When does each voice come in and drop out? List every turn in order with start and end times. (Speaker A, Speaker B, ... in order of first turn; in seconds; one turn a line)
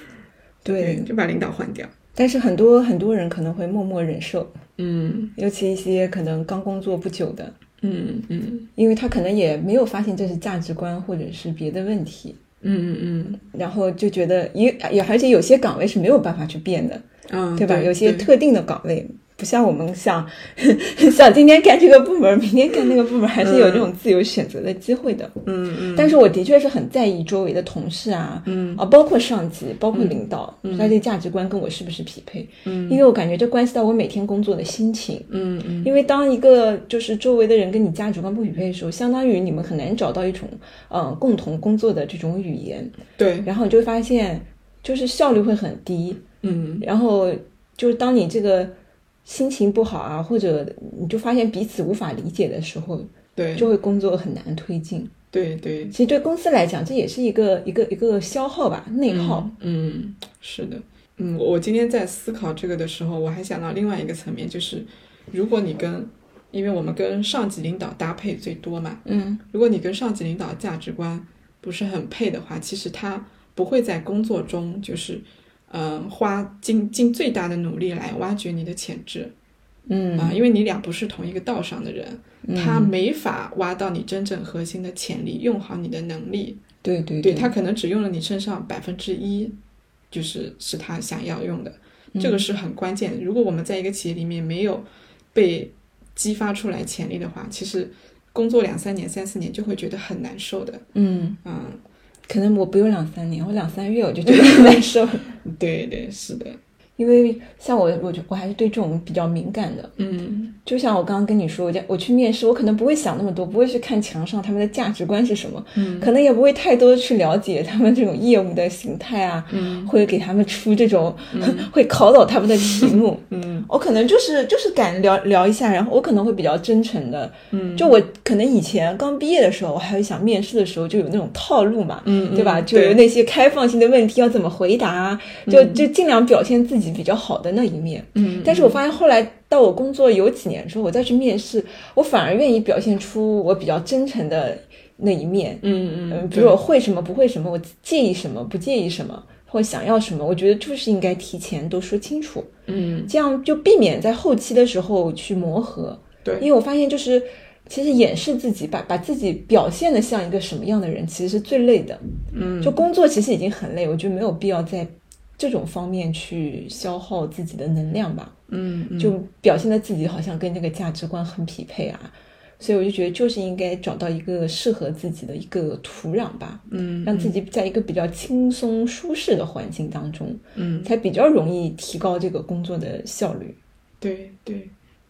Speaker A: 0.6-1.1
Speaker B: 0.8-1.9
Speaker A: 2.1-4.6
Speaker B: 4.8-5.3
Speaker A: 5.3-7.5
Speaker B: 7.8-8.7
Speaker A: 8.8-12.4
Speaker B: 12.6-13.4
Speaker A: 13.4-17.0
Speaker B: 17.3-18.3
Speaker A: 17.6-25.4
Speaker B: 23.4-23.9
Speaker B: 25.4-26.1
Speaker A: 25.9-35.3
Speaker B: 28.4-28.8
Speaker B: 29.9-31.0
Speaker B: 32.6-33.0
Speaker B: 35.3-35.9
Speaker A: 35.8-42.9
Speaker B: 43.2-43.5
Speaker A: 43.4-46.2
Speaker B: 46.4-46.9
Speaker A: 46.8-48.7
Speaker A: 49.2-55.1
Speaker B: 53.4-53.7
Speaker B: 55.3-56.0
Speaker A: 55.9-59.5
Speaker B: 59.1-79.3
Speaker A: 69.0-69.4
Speaker A: 79.9-80.4
Speaker B: 80.2-86.6
Speaker A: 82.4-82.9
Speaker A: 86.8-87.5
Speaker B: 87.2-89.6
Speaker B: 90.1-100.8
Speaker A: 92.1-92.4
Speaker A: 100.9-101.4
Speaker B: 101.4-101.8
Speaker A: 102.3-105.3
Speaker B: 104.2-104.8
Speaker B: 105.4-106.6
Speaker A: 107.0-109.9
Speaker B: 110.0-110.6
Speaker A: 110.6-152.5
Speaker B: 115.7-116.1
Speaker B: 119.5-119.9
Speaker B: 121.3-121.7
Speaker B: 122.8-123.7
Speaker B: 127.5-127.9
Speaker B: 132.0-133.0
Speaker B: 135.4-135.8
Speaker B: 138.1-138.8
Speaker B: 145.6-146.6
Speaker B: 152.7-153.1
Speaker A: 153.1-162.0
Speaker B: 156.2-156.5
Speaker B: 162.3-162.8
Speaker A: 162.6-168.3
Speaker B: 168.5-169.2
Speaker A: 169.0-183.6
Speaker B: 176.7-177.3
Speaker B: 180.5-180.9
Speaker B: 184.0-184.7